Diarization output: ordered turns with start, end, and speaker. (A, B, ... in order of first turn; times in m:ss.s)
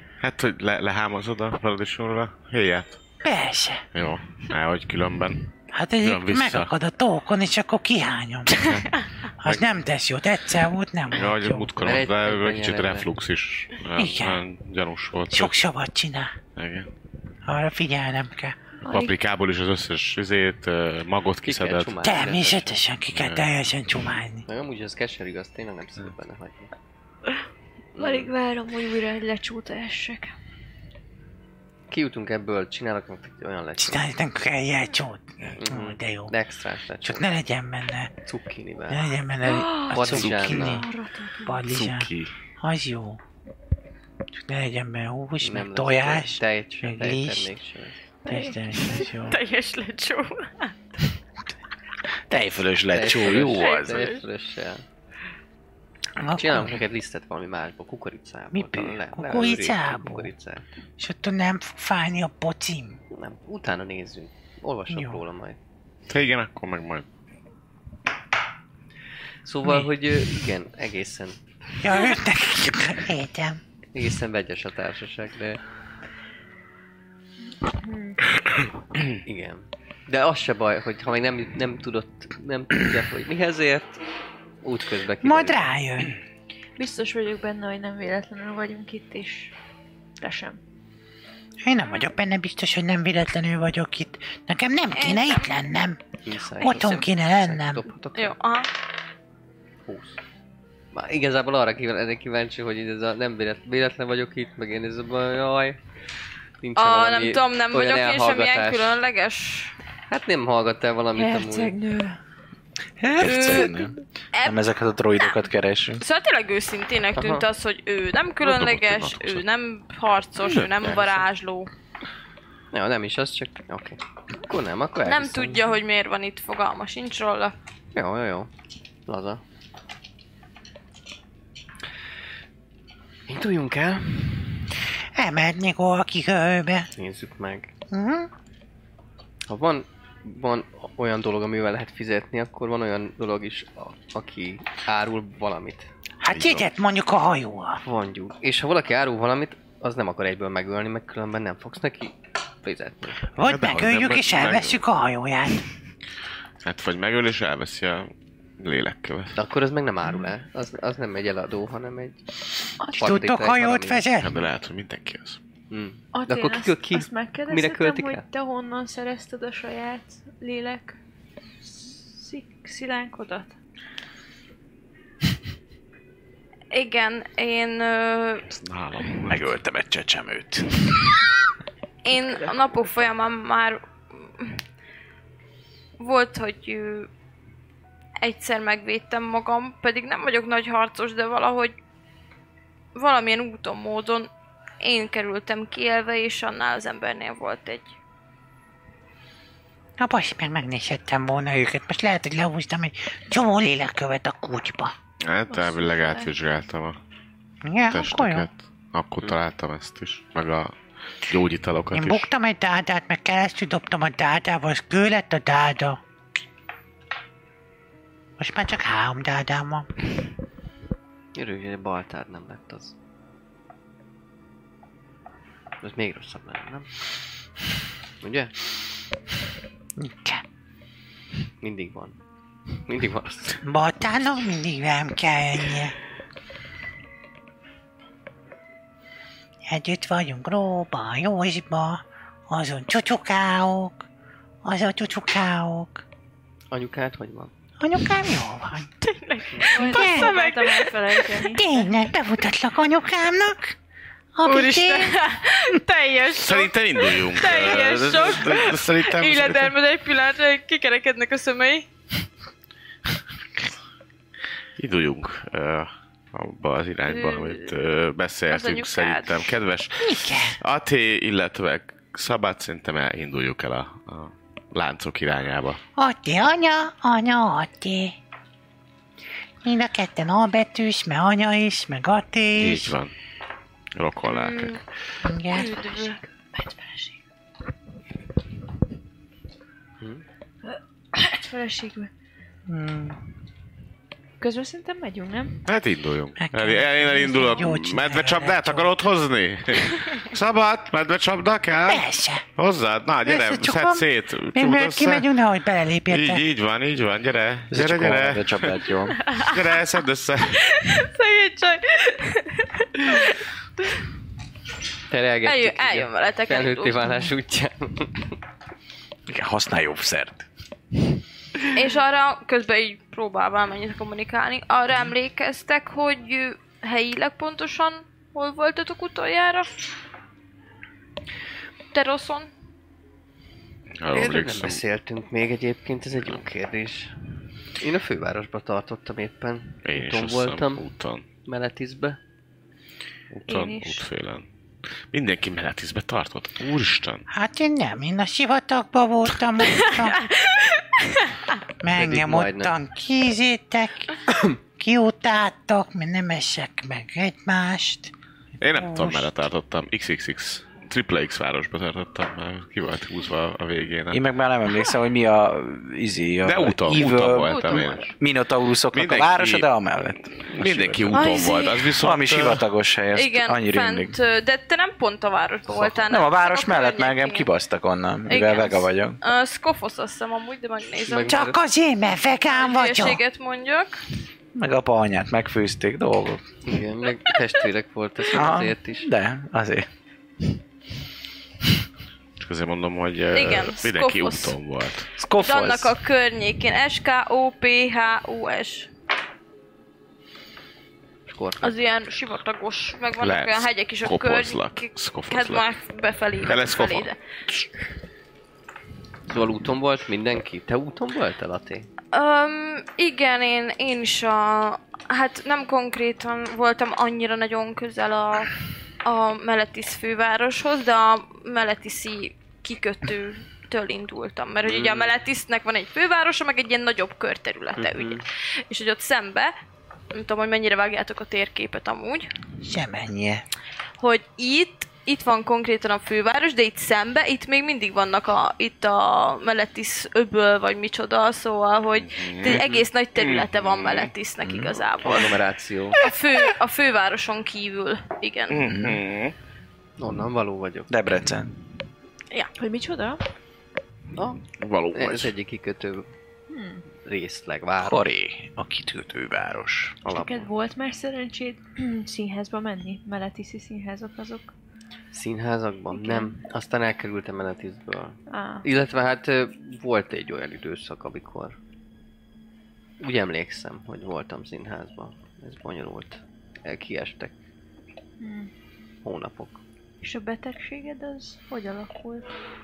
0:00.2-0:03.0 A
0:03.2-0:03.8 B
0:03.9-0:05.5 A
0:05.7-0:08.7 B
0:06.0-0:06.7 A
0:08.6-0:08.8 A
0:09.4-0:11.8 B
0:09.4-0:09.8 A
0:11.1-0:15.6 A
0:11.8-0:13.1 C
0:14.0-0:14.4 B
0:15.3-0:16.4 B
0:16.6-0:16.9 A
0:17.5-0:18.6 B
0:18.8-0:19.2 D
0:18.9-0:22.0 A
0:21.4-0:22.8 C
0:22.0-0:24.4 B
0:23.1-0:23.5 A
0:24.5-0:26.7 C
0:28.0-0:28.3 C
0:28.0-0:30.3 D
0:31.9-0:34.0 C
0:33.8-0:36.3 B
0:35.6-0:37.3 C
0:37.0-0:38.1 B
0:38.2-0:39.1 C
0:38.9-0:40.8 B
0:39.4-0:41.6 D
0:39.9-0:40.8 C
0:40.1-0:40.6 A
0:41.4-0:43.2 B
0:41.7-0:42.3 A
0:44.4-0:47.5 B
0:45.4-0:48.1 C
0:48.2-0:49.1 D
0:48.3-0:49.4 B
0:49.2-0:50.8 E
0:52.3-0:54.1 F
0:52.9-0:54.8 C
0:53.5-0:54.2 E
0:56.2-0:56.8 B
0:56.4-1:00.6 C
0:58.5-1:00.3 B
1:01.0-1:03.0 B
1:03.1-1:05.6 C
1:04.9-1:05.2 B
1:06.1-1:07.1 A
1:09.4-1:11.4 C
1:11.8-1:13.6 B
1:13.9-1:15.6 C
1:17.6-1:18.2 D
1:19.2-1:24.0 C
1:24.6-1:25.7 C
1:25.2-1:26.2 B
1:26.8-1:29.5 D
1:30.2-1:30.6 D
1:31.6-1:36.0 B
1:34.9-1:35.5 E
1:36.2-1:38.4 C
1:36.6-1:37.9 B
1:38.2-1:38.7 E
1:39.8-1:40.2 C
1:40.9-1:45.8 C
1:46.6-1:49.0 C
1:46.8-1:49.7 E
1:50.1-1:51.8 C
1:51.1-1:52.2 D
1:53.0-1:56.0 F
1:53.2-1:54.6 E
1:56.0-2:01.7 E
1:57.2-1:57.5 C
1:58.4-1:59.4 A
2:00.8-2:01.2 C
2:02.7-2:05.8 C
2:05.0-2:07.5 E
2:07.9-2:08.5 C
2:09.1-2:09.4 C
2:13.3-2:14.7 C
2:15.2-2:16.9 B
2:17.0-2:17.7 C
2:17.9-2:18.3 B
2:19.5-2:25.9 C
2:26.2-2:27.8 B
2:26.3-2:26.7 A
2:27.8-2:33.2 C
2:33.4-2:35.6 B
2:33.4-2:34.8 A
2:36.6-2:39.4 A
2:39.4-2:42.2 C
2:42.8-2:43.1 D
2:42.9-2:44.1 C
2:43.0-2:44.4 B
2:44.2-2:45.4 A
2:45.7-2:48.2 C
2:46.1-2:51.0 D
2:51.6-2:53.6 D
2:56.7-2:58.5 E
2:58.5-2:59.5 A
2:59.3-3:00.7 F
3:02.0-3:04.6 E
3:06.0-3:07.1 E
3:08.2-3:11.8 E
3:13.0-3:14.3 E
3:14.8-3:17.9 E
3:20.0-3:24.9 B
3:25.2-3:27.0 A
3:25.5-3:26.3 D
3:27.6-3:28.5 B
3:27.9-3:30.7 A
3:31.2-3:32.3 A
3:31.9-3:36.0 B
3:38.4-3:39.9 B
3:41.4-3:43.0 C
3:45.8-3:47.0 C
3:48.2-3:48.6 C
3:50.0-3:50.4 B
3:51.6-3:52.2 C
3:52.7-3:53.6 C
3:53.6-3:55.9 B
3:59.7-4:04.1 B
4:04.6-4:06.0 B
4:06.7-4:07.5 C
4:07.8-4:08.9 B
4:09.0-4:11.5 E
4:09.5-4:09.9 C
4:09.7-4:11.9 D
4:09.9-4:10.3 B
4:11.5-4:13.8 B
4:14.4-4:15.2 B
4:14.4-4:21.9 E
4:16.4-4:19.8 A
4:24.8-4:35.8 A
4:27.1-4:27.7 E
4:28.5-4:29.5 E
4:30.0-4:30.6 B
4:36.0-4:38.2 B
4:39.6-4:43.0 B
4:42.6-4:43.1 A
4:44.0-4:44.8 A
4:44.3-4:44.8 E
4:45.2-4:45.8 B
4:45.5-4:46.2 E
4:45.5-4:47.2 D
4:50.6-4:52.1 D
4:52.7-4:53.2 B
4:54.4-4:55.6 D
4:55.7-5:05.3 A
4:56.4-4:58.9 B
4:57.3-4:57.6 D
5:01.9-5:02.4 B
5:03.3-5:06.4 B
5:06.1-5:08.9 A
5:07.7-5:09.2 F
5:09.3-5:09.6 E
5:09.4-5:10.6 A
5:10.6-5:13.4 E
5:15.1-5:18.4 C
5:15.4-5:17.2 E
5:19.3-5:20.5 F
5:21.7-5:29.7 E
5:31.9-5:32.5 E
5:34.0-5:34.8 A
5:34.1-5:40.8 C
5:39.8-5:41.2 A
5:41.4-5:42.2 C
5:43.3-5:44.5 A
5:43.5-5:44.0 D
5:45.1-5:47.3 A
5:47.3-5:50.2 B
5:50.0-5:51.5 E
5:51.8-5:54.2 B
5:51.9-5:52.7 C
5:54.8-5:58.1 B
5:58.6-6:04.2 A
5:58.7-5:59.3 B
6:04.1-6:07.5 F
6:06.4-6:08.2 A
6:07.2-6:08.1 E
6:08.2-6:11.2 F
6:08.9-6:09.7 A
6:10.4-6:12.6 A
6:11.1-6:11.9 E
6:11.9-6:14.2 F
6:13.1-6:17.5 E
6:16.1-6:19.2 F
6:18.3-6:21.3 E
6:21.0-6:21.6 C
6:21.3-6:23.2 B
6:22.5-6:24.0 E
6:24.6-6:26.4 F
6:26.6-6:29.1 C
6:28.3-6:29.9 F
6:32.4-6:35.1 A
6:33.3-6:34.6 E
6:35.2-6:35.9 F
6:35.4-6:38.9 E
6:41.3-6:41.8 C
6:41.6-6:47.2 E
6:43.2-6:45.6 A
6:46.4-6:47.1 A
6:49.3-6:51.9 C
6:52.1-6:58.5 E
6:59.0-7:09.5 E
7:04.6-7:05.1 C
7:07.8-7:08.2 C
7:10.1-7:12.3 E
7:12.6-7:13.4 B
7:14.0-7:25.4 E
7:22.0-7:22.6 A
7:22.4-7:22.9 C
7:23.2-7:24.1 A
7:24.4-7:24.8 F
7:25.0-7:26.0 C
7:26.0-7:28.6 E
7:28.5-7:29.4 A
7:28.7-7:29.0 F
7:30.0-7:30.9 C
7:30.9-7:31.5 F
7:32.6-7:33.2 D
7:34.2-7:36.1 C
7:34.6-7:35.3 A
7:36.5-7:36.8 D
7:37.0-7:38.0 C
7:37.8-7:40.0 F
7:40.0-7:40.5 C
7:40.0-7:44.5 D
7:45.1-7:51.6 C
7:45.9-7:46.4 D
7:48.3-7:48.7 D
7:53.0-7:57.3 C
7:58.2-7:58.5 D
7:59.0-7:59.6 C
8:00.0-8:02.3 D